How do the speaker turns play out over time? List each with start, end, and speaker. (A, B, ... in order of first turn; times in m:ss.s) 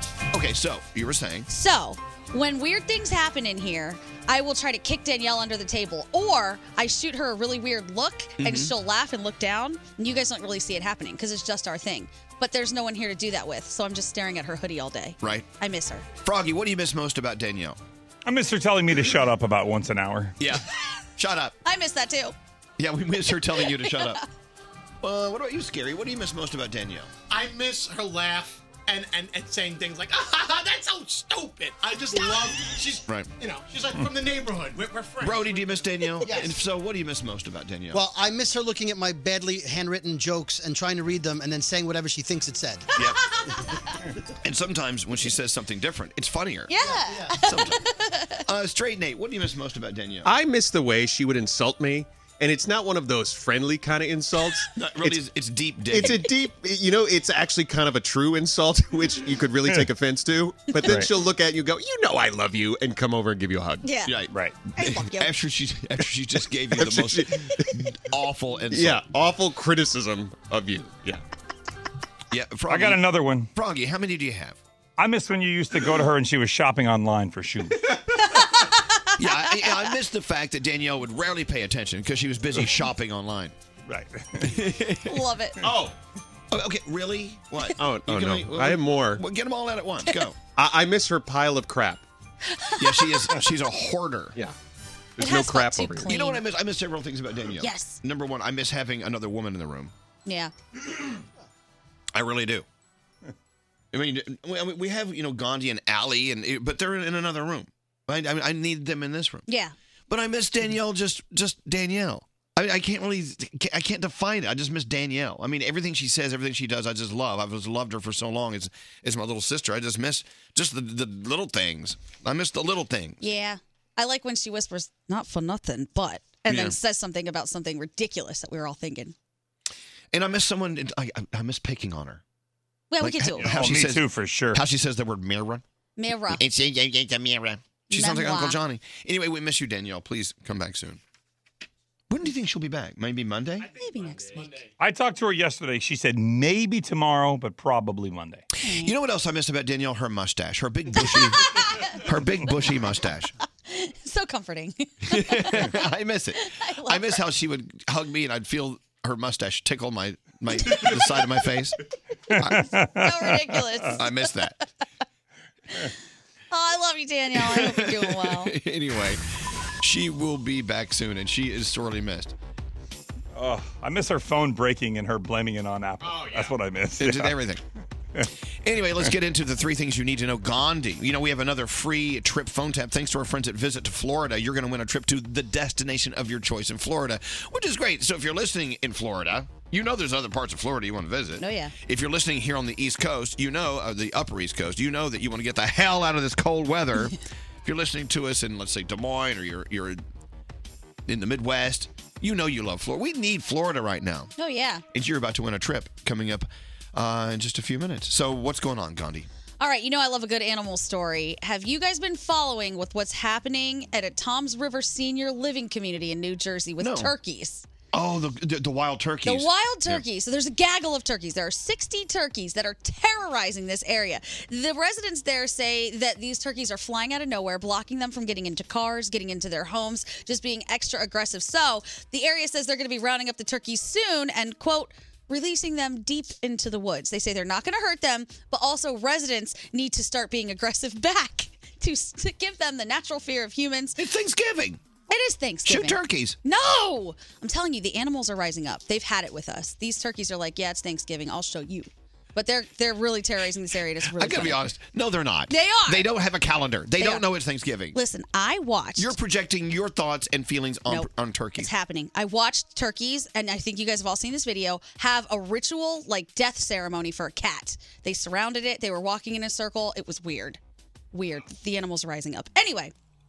0:00.3-0:01.5 A
0:01.5-0:16.0 B
0:08.4-0:08.7 A
0:15.2-0:15.5 A
0:16.2-0:17.8 A
0:18.2-0:20.4 C
0:21.2-0:21.6 A
0:21.6-0:22.3 B
0:22.8-0:24.2 A
0:23.8-0:24.2 B
0:25.0-0:27.1 A
0:27.3-0:36.6 D
0:35.2-0:38.0 A
0:37.9-0:42.9 E
0:44.4-0:46.8 A
0:46.7-0:48.4 B
0:46.9-0:47.2 E
0:47.3-0:47.8 A
0:48.4-0:50.3 A
0:50.2-0:55.2 F
0:54.8-0:56.3 A
0:55.9-1:03.8 F
1:03.8-1:04.2 B
1:04.0-1:09.0 A
1:04.3-1:04.6 C
1:04.7-1:05.3 B
1:06.7-1:07.6 F
1:08.7-1:11.2 F
1:12.3-1:13.0 A
1:12.7-1:13.5 C
1:13.5-1:14.6 A
1:15.0-1:17.9 C
1:18.3-1:18.8 B
1:19.2-1:23.5 A
1:23.9-1:24.5 C
1:24.4-1:25.2 A
1:25.0-1:25.6 B
1:26.5-1:30.4 A
1:27.8-1:29.2 F
1:30.6-1:32.0 F
1:32.5-1:33.2 B
1:32.8-1:34.4 A
1:35.2-1:36.2 F
1:35.2-1:36.4 B
1:36.0-1:39.9 A
1:37.6-1:38.0 B
1:40.2-1:40.5 B
1:42.1-1:42.6 A
1:43.9-1:49.4 A
1:49.5-1:49.7 B
1:50.1-2:03.2 A
2:03.2-2:09.1 B
2:06.5-2:06.8 A
2:10.1-2:12.2 A
2:12.9-2:13.6 B
2:13.0-2:15.6 A
2:13.4-2:14.6 C
2:16.0-2:16.4 B
2:16.3-2:21.0 A
2:17.9-2:18.6 B
2:22.1-2:23.7 A
2:23.6-2:24.7 D
2:23.8-2:24.6 B
2:24.8-2:28.4 C
2:28.6-2:28.9 B
2:28.7-2:33.3 A
2:31.6-2:31.9 B
2:33.7-2:35.8 B
2:35.1-2:41.8 A
2:36.5-2:37.2 B
2:42.3-2:42.7 A
2:42.4-2:43.1 C
2:43.0-2:44.2 B
2:43.9-2:44.5 A
2:46.5-2:48.5 B
2:47.3-2:49.2 A
2:49.8-2:52.3 A
2:53.3-2:57.3 C
2:56.0-2:56.5 D
2:57.0-2:57.6 A
2:58.6-3:20.0 A
3:11.4-3:11.7 B
3:21.1-3:24.3 A
3:24.4-3:24.8 B
3:24.9-3:29.3 A
3:29.6-3:37.7 B
3:36.8-3:37.1 A
3:37.9-3:40.0 A
3:39.2-4:04.0 B
4:04.0-4:04.8 A
4:05.1-4:14.6 B
4:05.6-4:06.4 A
4:14.0-4:18.0 A
4:15.5-4:16.0 B
4:17.0-4:17.2 B
4:17.9-4:19.1 B
4:19.0-4:21.7 A
4:20.9-4:30.6 B
4:31.1-4:32.9 B